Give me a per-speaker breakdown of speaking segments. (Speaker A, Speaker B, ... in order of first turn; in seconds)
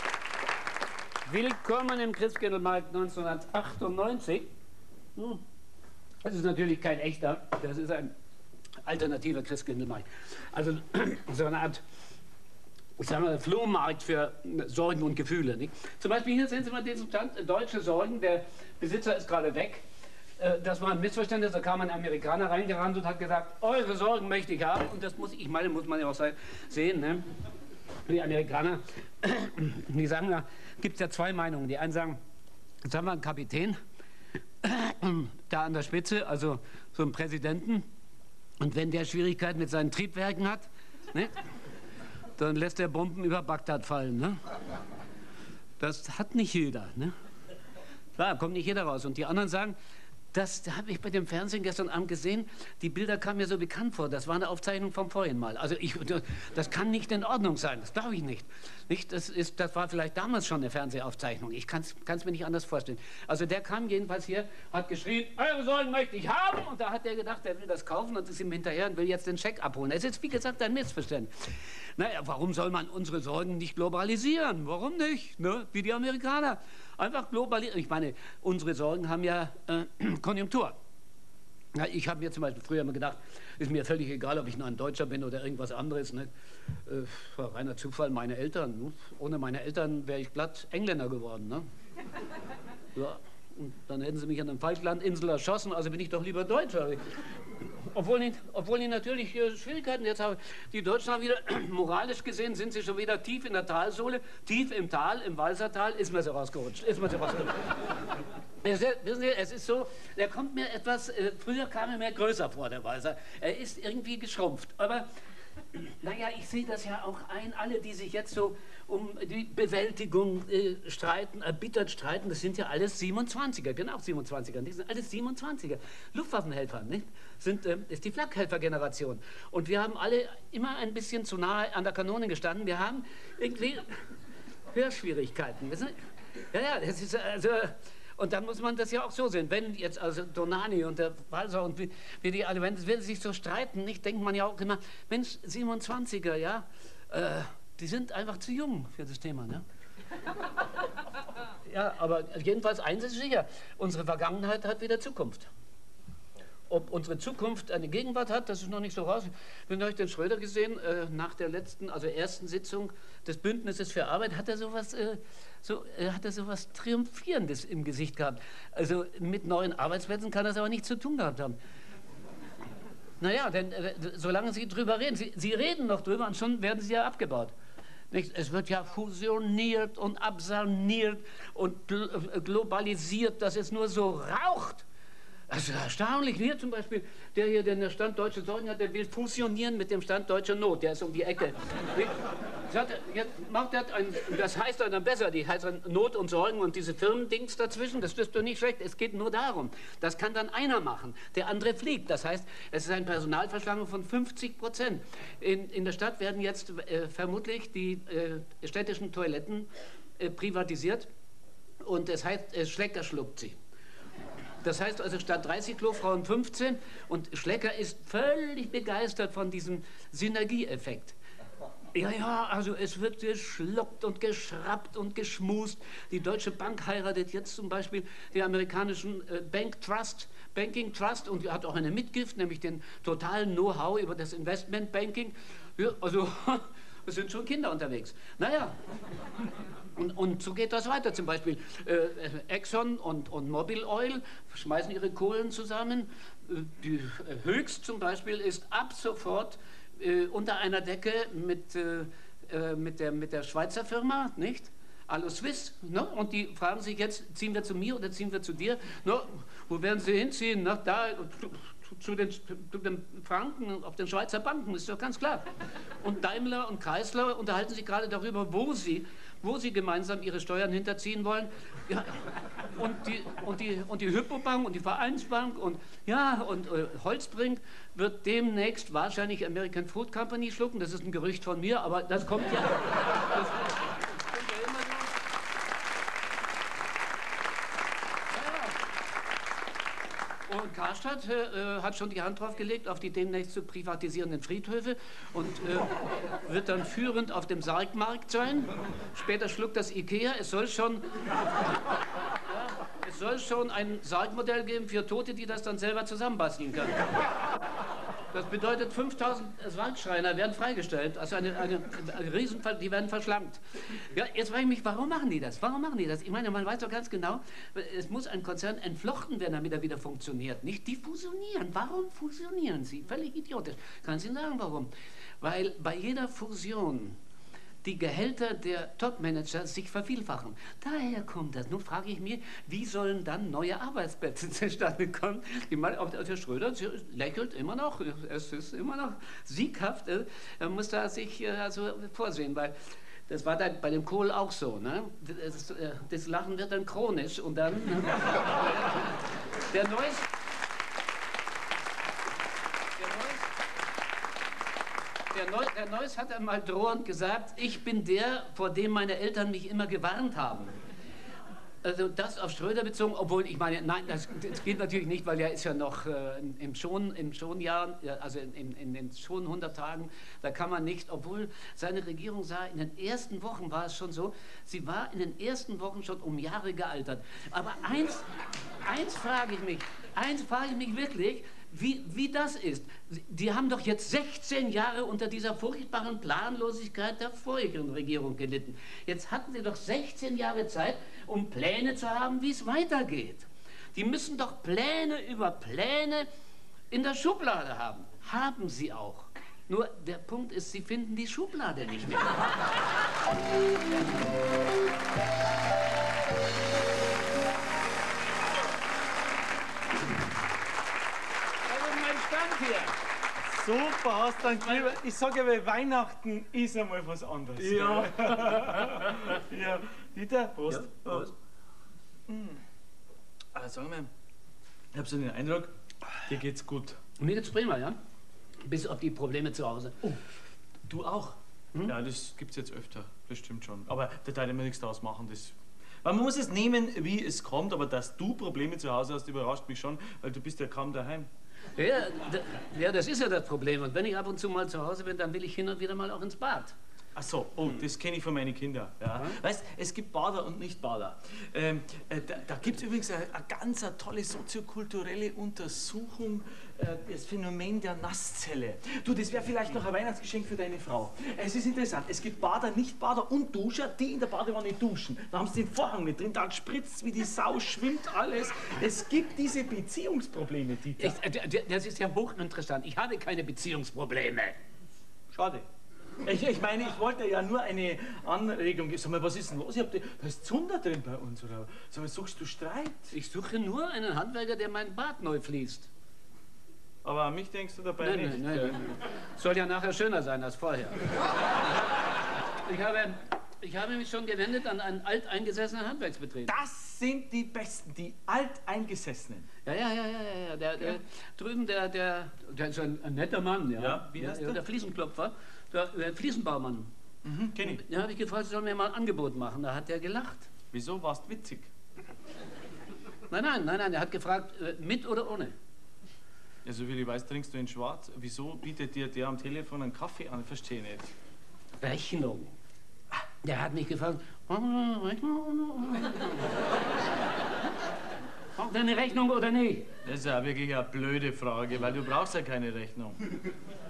Speaker A: 1.3-4.5, 5.2-5.4, 6.2-8.1, 8.8-11.8, 13.0-19.9, 20.4-27.3, 28.1-32.2, 32.8-33.8, 34.6-37.9, 38.6-41.4, 42.4-44.4, 45.8-47.1, 48.2-49.8, 50.3-80.8, 81.7-86.3, 86.9-91.7, 93.0-97.0, 97.6-107.7, 108.6-115.1, 115.7-134.0, 134.7-136.0, 136.5-149.6, 151.7-155.5, 156.7-171.6, 173.2-177.5, 178.1-184.8, 185.5-209.7, 210.2-211.1, 211.8-213.6, 214.6-221.2, 221.9-238.8, 240.0-265.5, 266.0-285.2, 288.3-288.8, 290.5-301.3, 302.5-307.1, 308.3-327.2, 327.8-342.8, 343.3-349.1, 349.7-350.3, 353.0-353.5, 355.3-360.8, 361.8-378.3, 378.8-396.3, 396.9-402.5, 411.7-413.0, 414.5-414.9, 417.7-418.4, 420.7-421.3, 427.2-428.0, 428.6-430.0, 441.8-446.8, 471.0-474.6, 483.1-485.9, 488.0-491.1, 492.6-496.6, 499.6-506.9, 507.6-510.5, 513.3-515.5, 521.8-522.5, 523.4-526.5, 528.6-529.9
Speaker B: 413.4-421.3, 422.3-422.6, 423.5-424.1, 424.9-427.0, 430.9-441.3, 447.1-471.2, 475.3-475.7, 476.2-483.1, 487.0-488.8, 496.5-499.5, 503.8-504.6, 507.2-507.8, 510.7-511.7, 516.6-521.1, 530.0-533.4